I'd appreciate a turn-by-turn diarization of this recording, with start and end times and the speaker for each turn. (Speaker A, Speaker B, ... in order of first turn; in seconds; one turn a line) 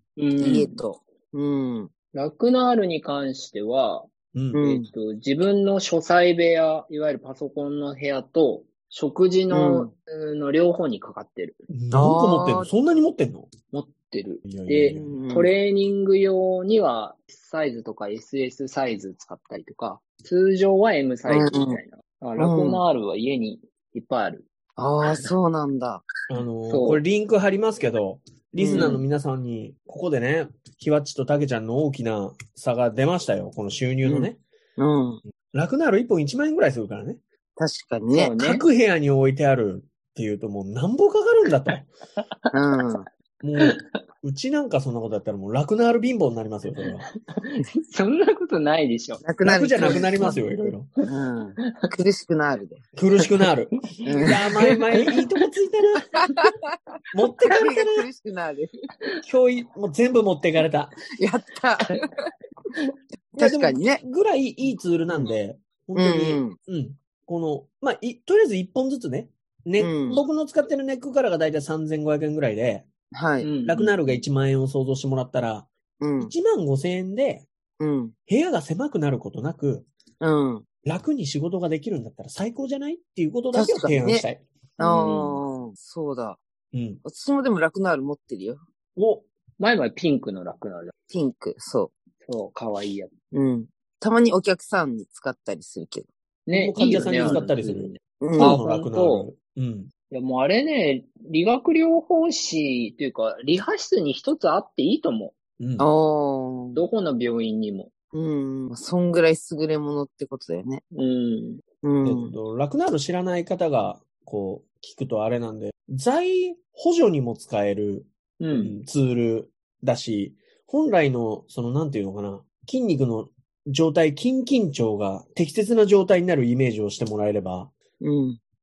Speaker A: 0.2-0.8
Speaker B: 0.4-1.9
Speaker A: 2.1-11.7
Speaker C: 4.3-4.6
Speaker B: 4.5-4.9
Speaker B: 9.5-9.9
Speaker C: 11.7-13.5
Speaker B: 11.9-12.7
Speaker A: 13.7-24.5
Speaker C: 14.4-15.2
Speaker B: 14.9-15.6
Speaker B: 21.3-21.8
Speaker B: 22.4-22.8
Speaker B: 24.8-26.0
Speaker A: 25.0-25.3
Speaker C: 26.3-34.4
Speaker A: 26.6-27.0
Speaker B: 28.6-29.0
Speaker A: 28.7-29.0
Speaker B: 34.0-35.2
Speaker C: 35.5-37.2
Speaker B: 37.6-38.3
Speaker A: 38.1-38.6
Speaker C: 38.4-41.9
Speaker B: 42.5-43.0
Speaker C: 43.4-47.1
Speaker A: 47.3-49.2
Speaker B: 49.2-50.4
Speaker C: 49.4-50.9
Speaker A: 49.8-50.4
Speaker B: 51.0-52.8
Speaker C: 52.9-56.1
Speaker B: 54.0-54.4
Speaker C: 57.1-58.1
Speaker B: 57.5-58.7
Speaker C: 59.2-61.0
Speaker B: 61.2-62.0
Speaker B: 63.4-64.0
Speaker C: 63.4-72.9
Speaker A: 64.6-65.4
Speaker B: 65.9-66.6
Speaker B: 69.8-70.2
Speaker B: 73.1-73.5
Speaker A: 73.4-74.2
Speaker C: 73.7-77.5
Speaker B: 76.0-76.3
Speaker B: 77.8-78.1
Speaker C: 78.3-79.9
Speaker B: 80.2-80.6
Speaker C: 80.8-84.4
Speaker B: 83.5-84.2
Speaker A: 84.8-85.5
Speaker B: 84.8-86.4
Speaker C: 86.7-87.0
Speaker B: 87.0-88.6
Speaker C: 89.0-89.2
Speaker A: 89.6-90.9
Speaker B: 91.1-91.9
Speaker A: 92.2-93.1
Speaker B: 93.3-96.1
Speaker A: 96.5-99.3
Speaker C: 96.5-99.9
Speaker B: 96.9-97.4
Speaker B: 98.2-98.6
Speaker A: 100.1-105.4
Speaker C: 105.6-105.9
Speaker B: 105.8-106.8
Speaker A: 106.7-107.9
Speaker B: 108.1-110.8
Speaker A: 110.9-111.6
Speaker B: 111.8-112.3
Speaker C: 112.0-127.7
Speaker A: 118.4-118.8
Speaker B: 128.0-128.4